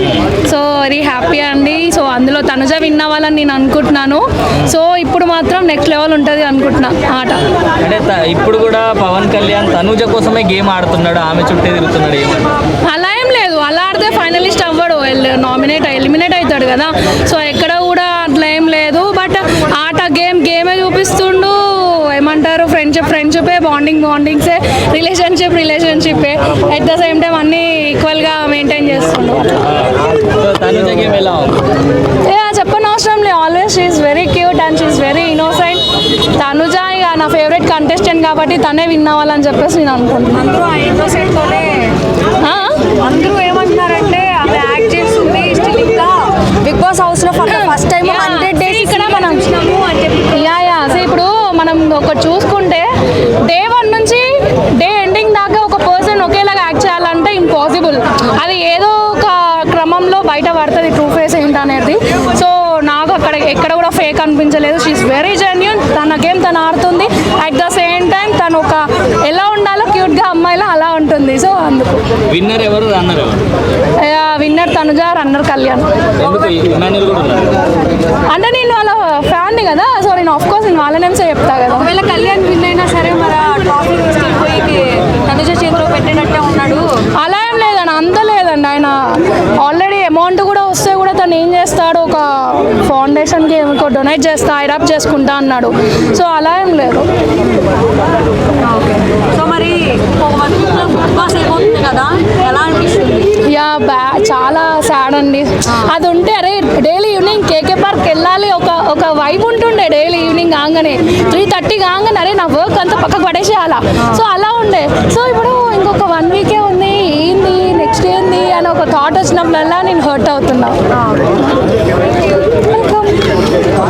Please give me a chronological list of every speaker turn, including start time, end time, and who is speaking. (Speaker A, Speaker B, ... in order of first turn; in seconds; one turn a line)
Speaker A: 0.5-7.5
Speaker B: 7.8-12.6
Speaker A: 12.9-29.8
Speaker B: 30.2-31.6
Speaker A: 32.3-35.9
Speaker A: 36.4-40.5
Speaker C: 40.4-41.9
Speaker A: 42.4-42.8
Speaker C: 42.9-50.3
Speaker A: 47.5-49.6
Speaker A: 50.3-52.9
Speaker A: 53.5-72.0
Speaker B: 72.3-73.4
Speaker A: 74.0-75.9
Speaker B: 76.2-77.6
Speaker C: 76.2-76.5
Speaker A: 78.3-81.9
Speaker C: 81.7-86.9
Speaker A: 87.2-97.1
Speaker C: 98.6-103.4
Speaker A: 103.5-120.8
Speaker A: 122.7-123.2